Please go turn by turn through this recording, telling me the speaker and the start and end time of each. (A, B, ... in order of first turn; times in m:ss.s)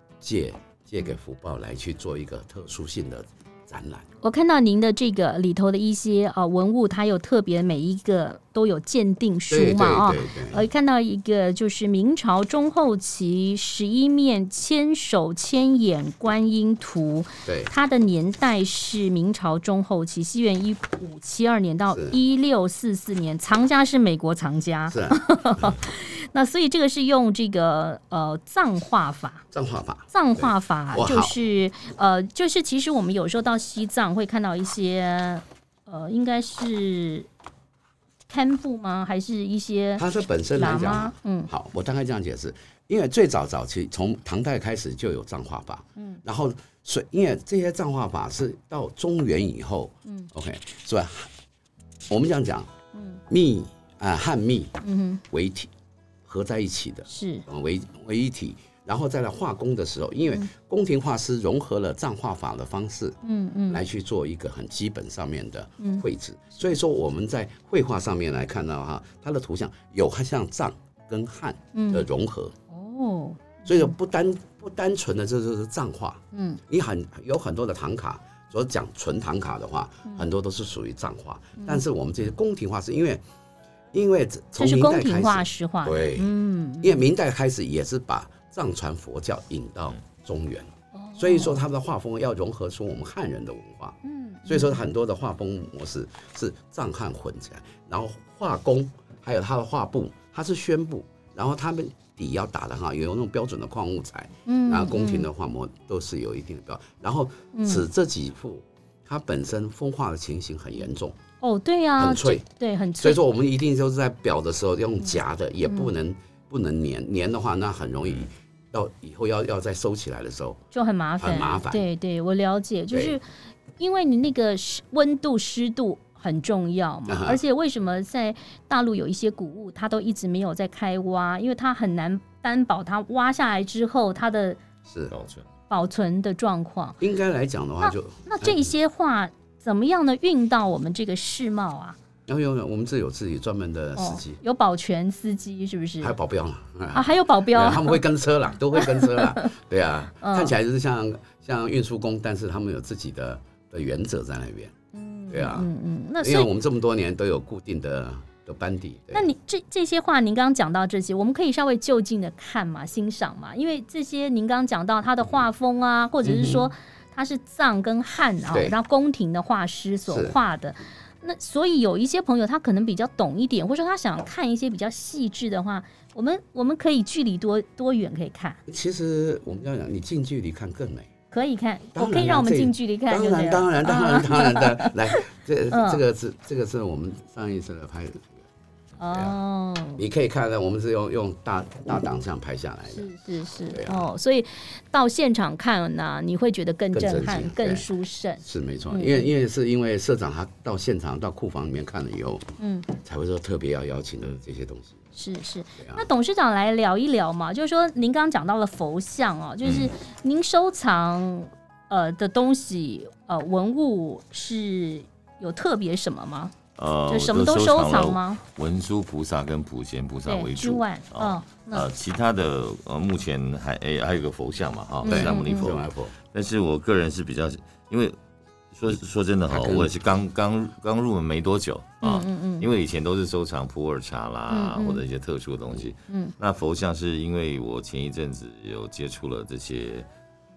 0:00.2-0:04.1 A
0:04.2-0:29.4 B
0:09.5-0:10.6 A
0:17.4-0:17.7 A
0:21.9-0:22.2 A
0:24.9-0:25.8 A
0:29.5-0:31.4 A
0:30.1-0:37.3 B
0:38.3-0:40.0 B
0:40.0-0:51.3 A
0:40.6-0:41.5 B
0:46.0-0:46.2 B
0:52.1-0:52.7 A
0:52.9-0:53.2 B
0:53.3-0:55.7 A
0:54.8-0:55.2 B
0:56.2-1:03.2 A
0:57.1-0:57.4 B
1:03.2-1:03.8 B
1:03.7-1:12.5 A
1:05.8-1:06.0 B
1:11.7-1:12.0 B
1:12.7-1:13.9 B
1:13.6-1:23.2 A
1:16.3-1:16.6 B
1:21.6-1:21.8 B
1:23.9-1:51.2 A
1:24.6-1:27.0 B
1:30.9-1:31.6 B
1:34.0-1:34.8 B
1:44.4-1:45.3 B
1:47.5-1:47.8 B
1:51.4-1:53.2 B
1:52.0-1:52.4 A
1:53.0-2:00.6 A
1:55.7-1:55.9 B
2:00.7-2:03.2 B
2:01.2-2:01.8 A
2:02.9-2:03.2 A
2:03.8-2:14.6 B
2:07.1-2:07.4 A
2:14.8-2:15.1 A
2:15.1-2:15.5 C
2:15.7-2:17.0 B
2:17.0-2:18.7 A
2:17.8-2:22.0 B
2:22.3-2:24.4 A
2:24.0-2:26.1 B
2:26.0-2:34.7 A
2:26.9-2:28.0 B
2:28.8-2:29.5 B
2:30.2-2:30.5 B
2:34.9-2:36.5 B
2:35.3-2:35.7 A
2:36.2-2:39.3 A
2:39.1-2:58.6 B
2:46.2-2:46.7 A
2:48.5-2:48.7 A
2:50.1-2:50.4 A
2:58.7-3:01.1 A
3:01.3-3:06.0 B
3:01.9-3:08.4 A
3:09.0-3:10.0 B
3:10.0-3:13.1 A
3:12.9-3:19.3 B
3:13.7-3:14.1 A
3:16.9-3:17.9 A
3:18.4-3:22.4 A
3:22.6-3:22.9 B
3:23.0-3:25.0 A
3:25.1-3:36.5 B
3:25.8-3:26.1 A
3:29.6-3:29.9 C
3:36.8-3:48.2 C
3:37.1-3:38.4 B
3:40.2-3:41.9 B
3:45.0-3:45.7 B
3:45.0-3:46.2 A
3:48.7-4:00.1 C
3:49.5-3:50.0 A
3:52.0-3:52.7 B
3:54.5-3:55.0 B
3:56.1-3:56.3 B